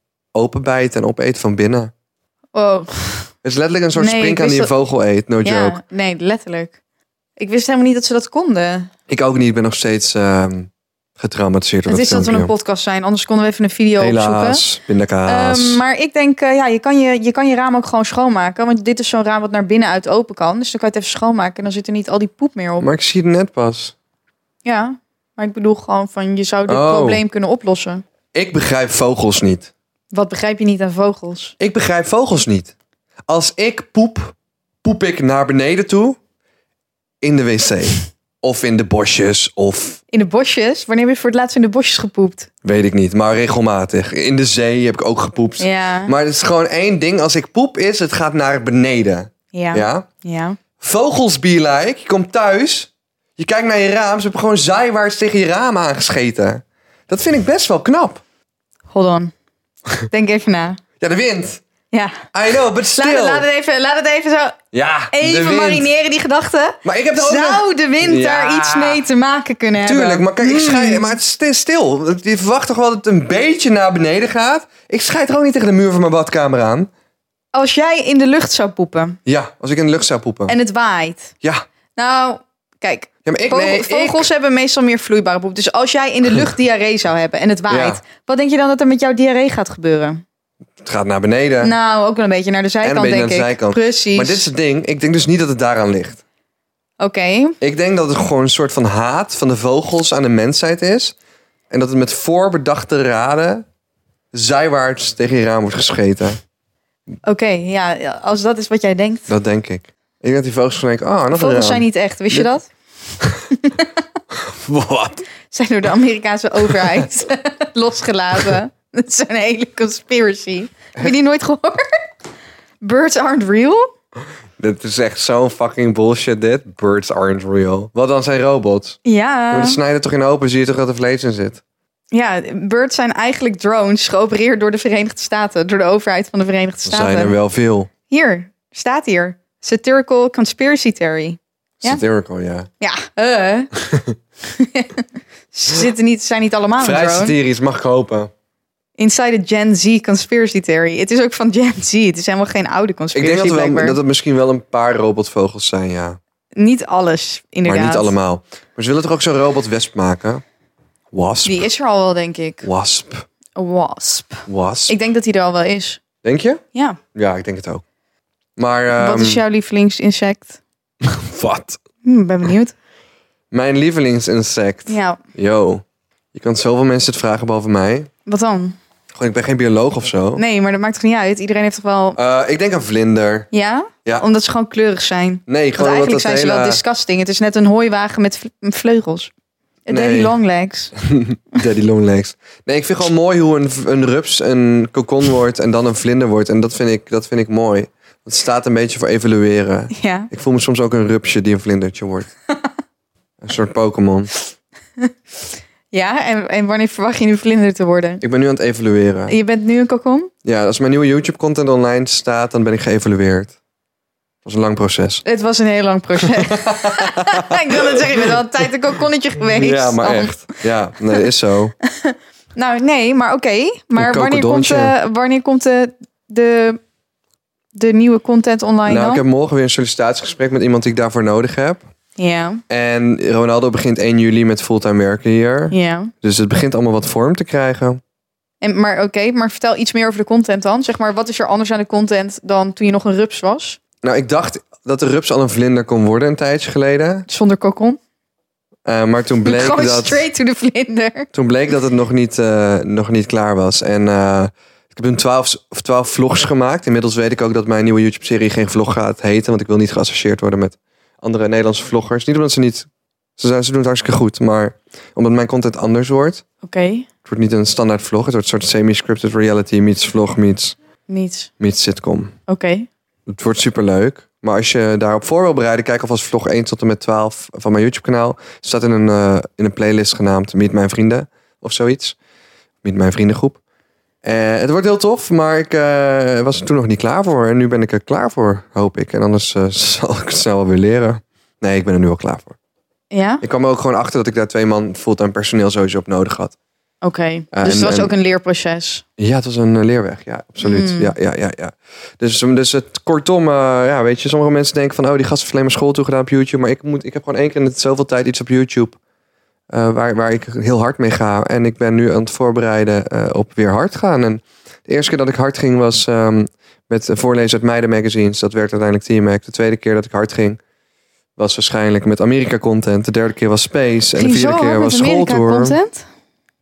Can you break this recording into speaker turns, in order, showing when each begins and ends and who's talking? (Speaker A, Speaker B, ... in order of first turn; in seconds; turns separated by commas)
Speaker A: 0.3-1.9, Speaker B: 2.5-3.3, Speaker A: 3.4-5.8, Speaker B: 4.0-4.7, Speaker B: 5.4-6.7, Speaker B: 7.4-8.9, Speaker A: 9.1-12.5, Speaker B: 11.9-14.6, Speaker A: 14.0-15.8, Speaker B: 15.3-22.9, Speaker A: 22.8-23.9, Speaker B: 24.6-28.0, Speaker A: 26.7-27.2, Speaker A: 28.3-29.7, Speaker B: 30.1-31.6, Speaker A: 31.6-32.7, Speaker A: 33.3-36.2, Speaker A: 37.2-40.0, Speaker B: 40.1-42.5, Speaker A: 42.6-50.1, Speaker B: 45.6-46.1, Speaker B: 49.5-50.6, Speaker A: 50.8-58.2, Speaker B: 58.9-59.3, Speaker B: 60.1-60.8, Speaker A: 61.0-61.6, Speaker B: 61.9-62.3, Speaker A: 62.3-63.5, Speaker B: 62.9-64.6, Speaker A: 64.7-65.9, Speaker B: 65.1-71.1, Speaker A: 66.8-69.0, Speaker A: 69.8-76.9, Speaker B: 77.5-79.2, Speaker A: 79.3-80.6, Speaker B: 80.5-81.3, Speaker B: 82.0-90.2, Speaker A: 83.2-84.3, Speaker A: 87.7-88.0, Speaker A: 90.8-91.8, Speaker B: 91.6-94.5, Speaker A: 92.8-96.2, Speaker B: 97.0-97.6, Speaker A: 97.6-101.2, Speaker A: 101.7-103.7, Speaker A: 104.3-106.4, Speaker B: 107.2-109.3, Speaker A: 109.3-112.5, Speaker B: 111.3-112.7, Speaker B: 113.5-113.9, Speaker A: 114.3-115.3, Speaker B: 115.5-121.9, Speaker A: 116.7-117.0, Speaker B: 122.8-123.9, Speaker A: 124.6-129.0, Speaker B: 129.1-129.8, Speaker A: 129.5-131.6, Speaker B: 132.1-137.3, Speaker A: 136.8-137.9, Speaker B: 138.1-142.0, Speaker A: 141.8-142.7, Speaker B: 142.8-143.7, Speaker A: 143.8-144.2, Speaker B: 144.5-147.3, Speaker A: 146.8-148.3, Speaker B: 149.0-154.0, Speaker A: 153.1-156.2, Speaker B: 156.6-158.1, Speaker A: 157.7-160.4, Speaker A: 161.1-161.7, Speaker B: 161.4-162.7, Speaker A: 162.6-163.3, Speaker B: 163.6-166.0, Speaker A: 164.5-164.9, Speaker A: 166.2-166.6, Speaker B: 166.7-167.0, Speaker A: 167.1-167.8, Speaker A: 168.6-169.4, Speaker B: 168.9-170.6, Speaker A: 171.0-171.8, Speaker B: 172.0-172.8, Speaker A: 173.5-178.1, Speaker B: 174.9-175.2, Speaker B: 178.3-178.8, Speaker A: 179.1-180.4, Speaker B: 180.4-182.2, Speaker A: 182.2-183.5, Speaker B: 183.5-189.3, Speaker A: 185.5-186.8, Speaker B: 189.9-190.9, Speaker A: 189.9-190.3, Speaker A: 191.0-202.3, Speaker B: 199.9-200.3, Speaker A: 203.4-204.3, Speaker B: 205.9-208.2, Speaker A: 208.2-209.4, Speaker B: 209.3-210.3, Speaker A: 210.4-213.6, Speaker A: 214.4-215.2, Speaker B: 215.2-220.6, Speaker A: 216.2-218.4, Speaker A: 219.4-221.8, Speaker B: 221.9-226.8, Speaker A: 224.0-224.9, Speaker B: 227.8-229.2, Speaker A: 228.9-231.8, Speaker B: 232.2-232.6, Speaker A: 232.7-238.0, Speaker B: 235.7-236.1, Speaker B: 238.6-243.8, Speaker A: 244.0-247.3, Speaker B: 247.3-248.0, Speaker A: 248.8-250.2, Speaker B: 249.4-251.3, Speaker A: 251.3-262.9, Speaker A: 263.4-266.4, Speaker B: 266.6-267.1, Speaker A: 267.2-270.8, Speaker B: 271.1-271.5, Speaker A: 271.6-272.4, Speaker B: 272.5-272.9, Speaker A: 273.3-282.2, Speaker A: 282.8-283.6, Speaker A: 284.2-292.6, Speaker B: 293.1-293.4, Speaker A: 293.4-296.5, Speaker B: 297.0-299.0, Speaker A: 297.5-298.1, Speaker A: 299.2-309.0, Speaker B: 300.6-301.1, Speaker A: 309.7-320.6, Speaker A: 321.4-325.8, Speaker B: 324.2-326.1